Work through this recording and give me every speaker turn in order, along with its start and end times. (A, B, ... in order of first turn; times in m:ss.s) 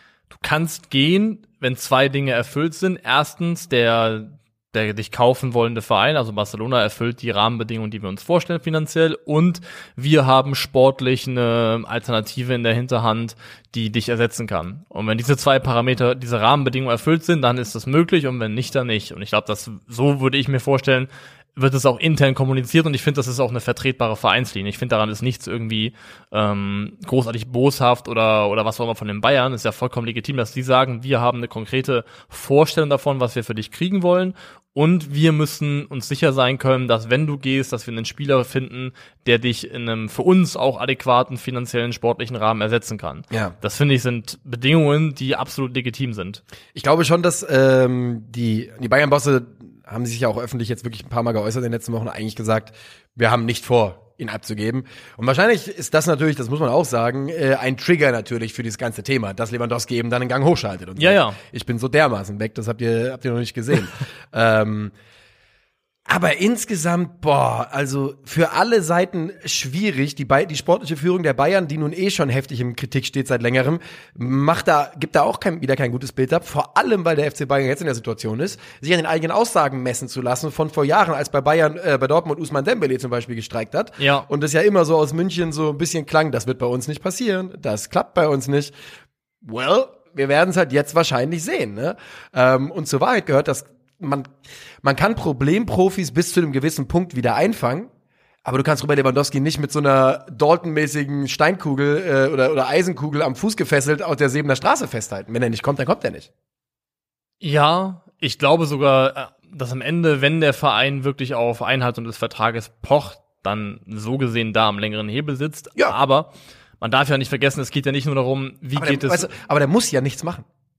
0:00.3-0:46.4 A
0:46.7-1:04.9 B
1:01.0-1:01.4 A
1:06.1-1:28.7 B
1:24.0-1:24.3 A
1:29.4-1:37.9 B
1:38.4-1:46.3 B
1:47.4-1:59.3 A
1:58.8-2:00.4 B